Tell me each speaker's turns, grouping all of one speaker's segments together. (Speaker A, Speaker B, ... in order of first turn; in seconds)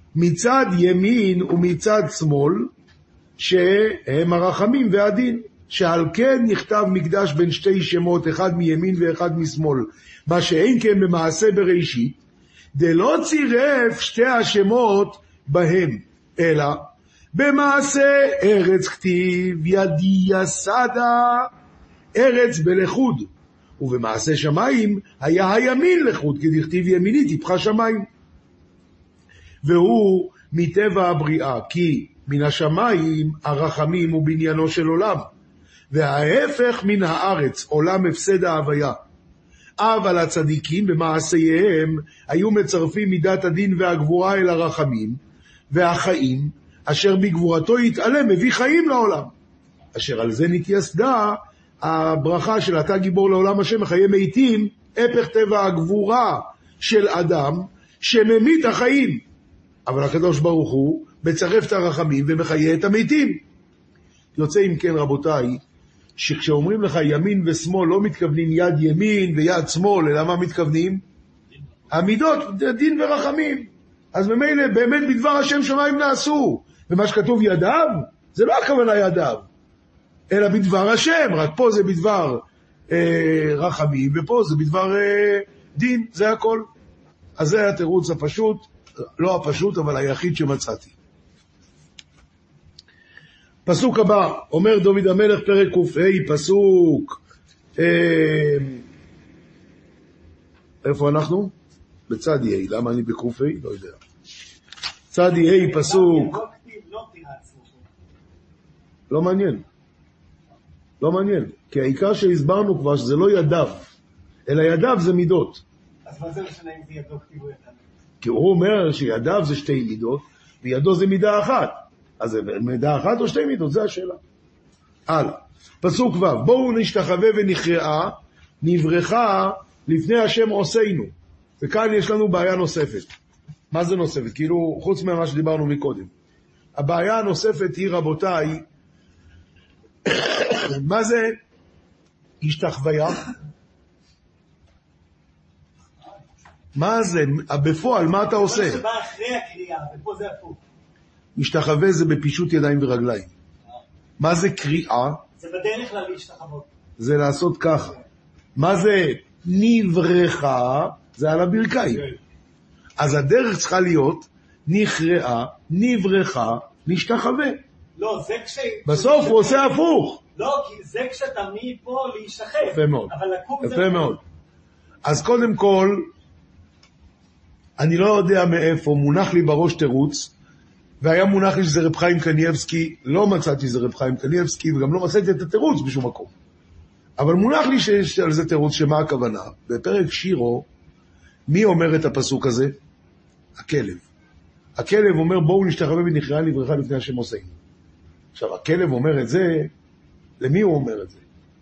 Speaker A: 0.1-2.7, 3.4-12.2, 12.8-21.5, 22.1-28.1, 29.6-35.3, 35.9-39.0, 39.8-45.2, 45.7-49.3, 49.9-59.2, 59.9-63.4, 64.3-65.6, 66.2-71.0, 71.9-79.5, 80.3-86.7, 87.4-91.0, 93.7-97.2, 97.8-98.8, 100.8-101.5, 102.1-104.0, 105.1-106.4, 109.1-109.6, 111.0-113.8, 114.5-115.6, 118.2-124.2, 125.1-133.1, 133.7-136.1, 136.8-138.6, 140.1-141.4, 142.4-143.3, 146.8-148.8, 151.4-153.3, 154.2-155.2, 157.0-158.0, 158.6-162.0, 163.0-167.6, 168.9-170.2, 172.6-174.2, 175.0-176.1, 177.8-180.3, 181.0-186.3, 187.2-190.7, 191.5-192.8, 193.6-194.1, 194.8-197.5, 198.3-199.7, 200.4-201.2
Speaker B: 105.3-107.9, 116.0-117.9, 148.3-150.6, 155.4-156.7, 168.0-169.8, 170.3-174.2